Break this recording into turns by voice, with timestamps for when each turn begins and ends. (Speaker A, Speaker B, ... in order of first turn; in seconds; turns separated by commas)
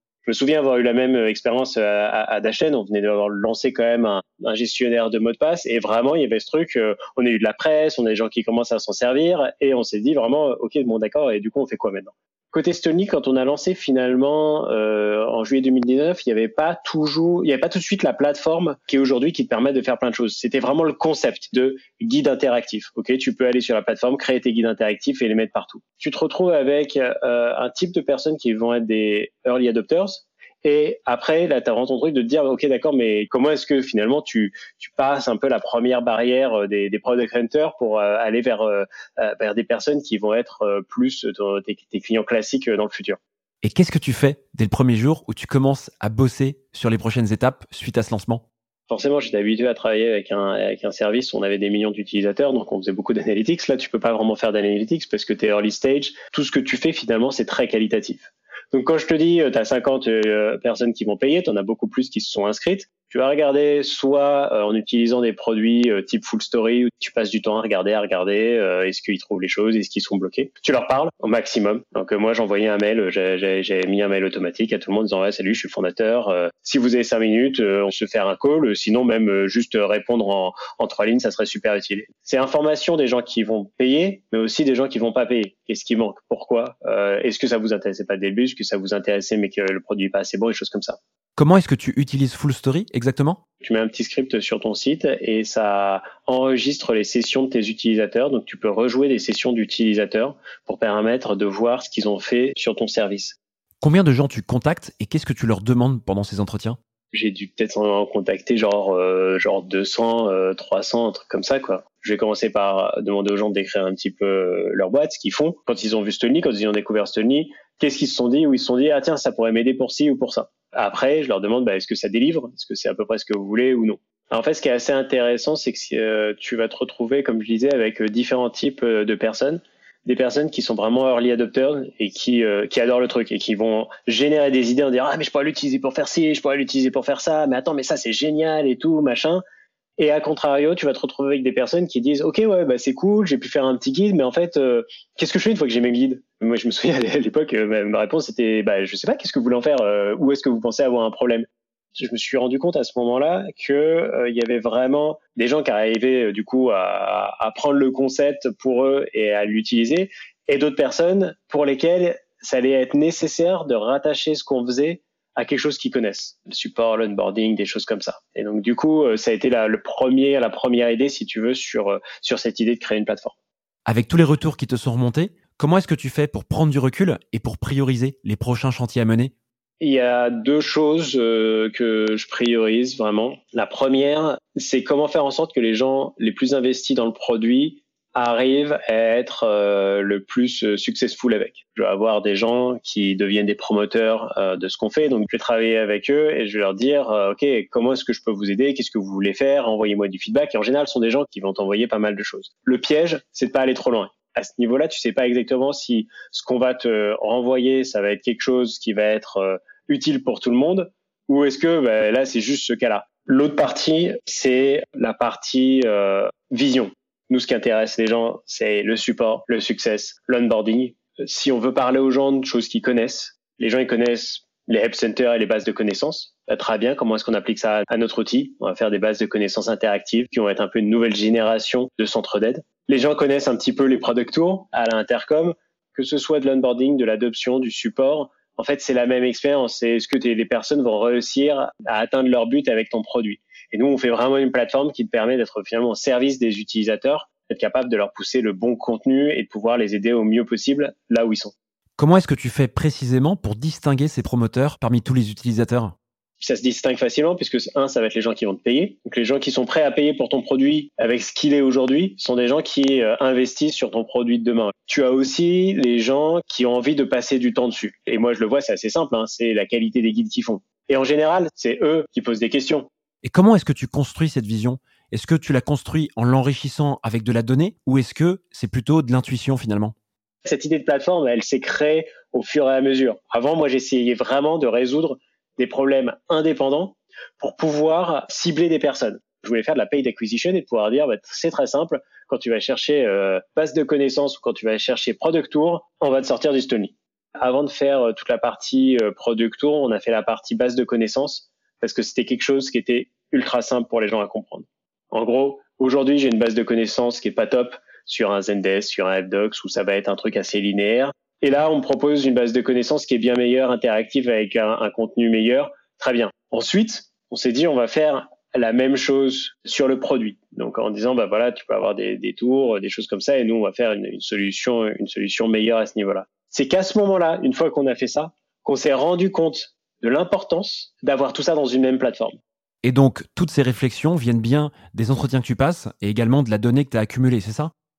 Speaker A: 0.3-43.2, Speaker B: 43.6-48.4, Speaker A: 48.9-91.0, Speaker B: 91.4-93.4, Speaker A: 93.6-103.4, Speaker B: 103.8-106.8, Speaker A: 107.1-139.4, Speaker A: 140.0-173.3, Speaker B: 173.9-179.3, Speaker A: 179.8-251.5, Speaker B: 252.0-255.9, Speaker A: 256.4-272.9, Speaker B: 273.2-279.9, Speaker A: 280.4-332.4, Speaker B: 332.8-337.7